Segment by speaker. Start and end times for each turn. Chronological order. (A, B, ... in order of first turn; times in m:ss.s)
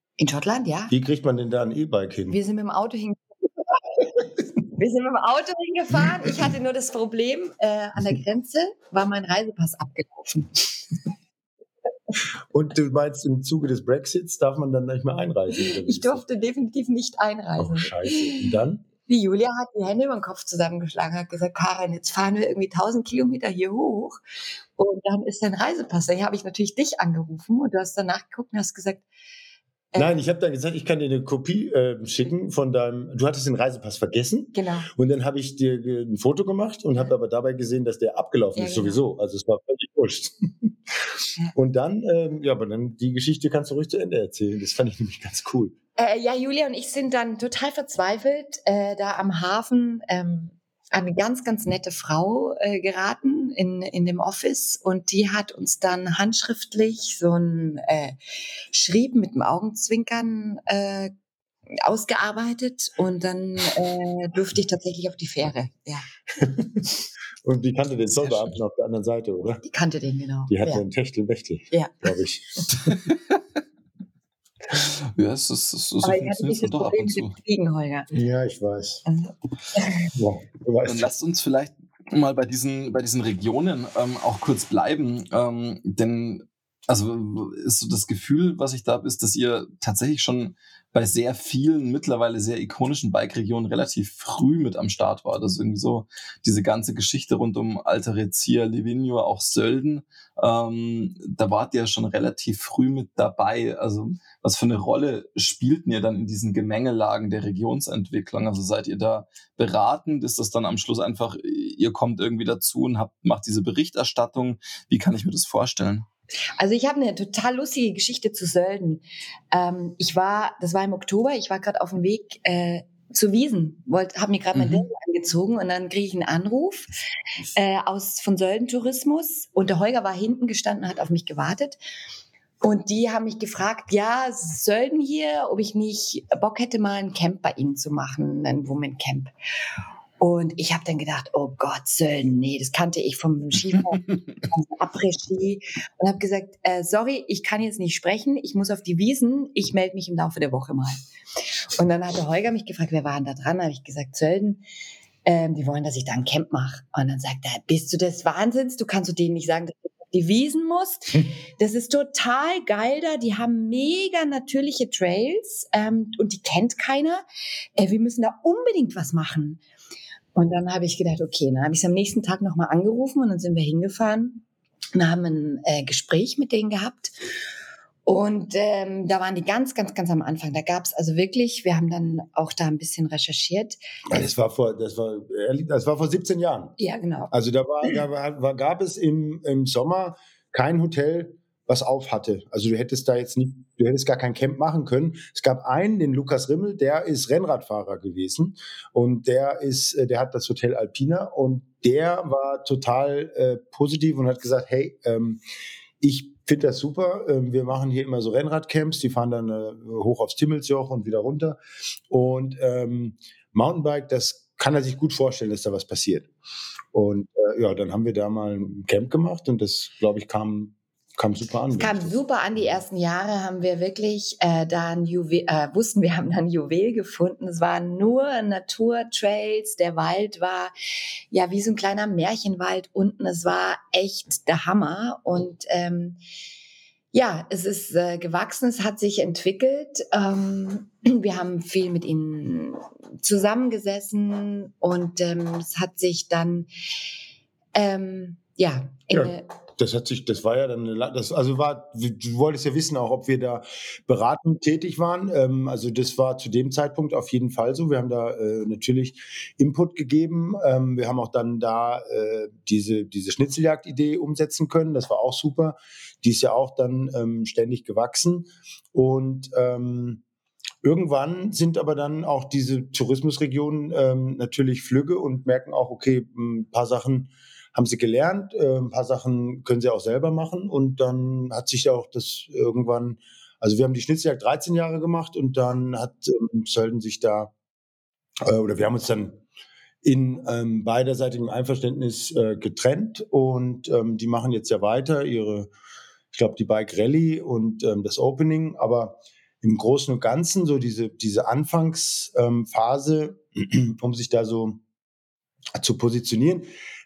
0:00.2-0:00.9 A
0:00.9-0:02.4 B
0:02.3-0:03.2 A
0:04.0-0:10.6 A
0:12.5-0:16.2 B
0:15.6-0:18.5 A
0:17.6-0:18.8 B
0:19.1-0:24.2 A
0:24.8-0:29.0 A
0:30.0-0:40.7 B
0:34.5-0:34.9 A
0:38.6-0:39.0 A
0:41.6-0:45.7 B
0:46.0-0:58.2 A
0:58.7-1:01.1 A
1:01.8-1:06.0 A
1:06.4-1:06.9 B
1:07.4-1:09.6 B
1:08.2-1:08.5 C
1:09.6-1:10.8 A
1:10.5-1:13.0 B
1:11.7-1:12.0 A
1:14.7-1:17.4 C
1:16.0-1:18.1 A
1:18.1-1:19.0 B
1:19.1-1:20.1 A
1:20.2-1:21.1 B
1:20.8-1:56.1 C
1:56.6-2:06.9 A
2:04.6-2:04.8 C
2:07.5-2:11.8 A
2:12.6-2:19.3 A
2:20.2-2:31.0 A
2:31.7-2:34.6 A
2:35.2-2:47.2 A
2:47.8-2:49.6 A
2:50.4-2:54.4 A
2:55.0-2:57.1 A
2:58.1-3:03.8 A
3:04.1-3:06.8 B
3:06.8-3:07.3 A
3:07.3-3:25.4 B
3:26.0-3:31.6 B
3:32.1-3:36.3 B
3:36.9-3:42.2 B
3:41.7-3:50.7 A
3:51.3-3:56.2 A
3:57.1-4:06.7 A
4:07.8-4:09.5 A
4:09.1-4:30.2 B
4:30.8-4:47.5 B
4:48.5-4:49.4 B
4:50.0-4:55.7 B
4:56.3-5:04.8 B
5:05.8-5:06.7 B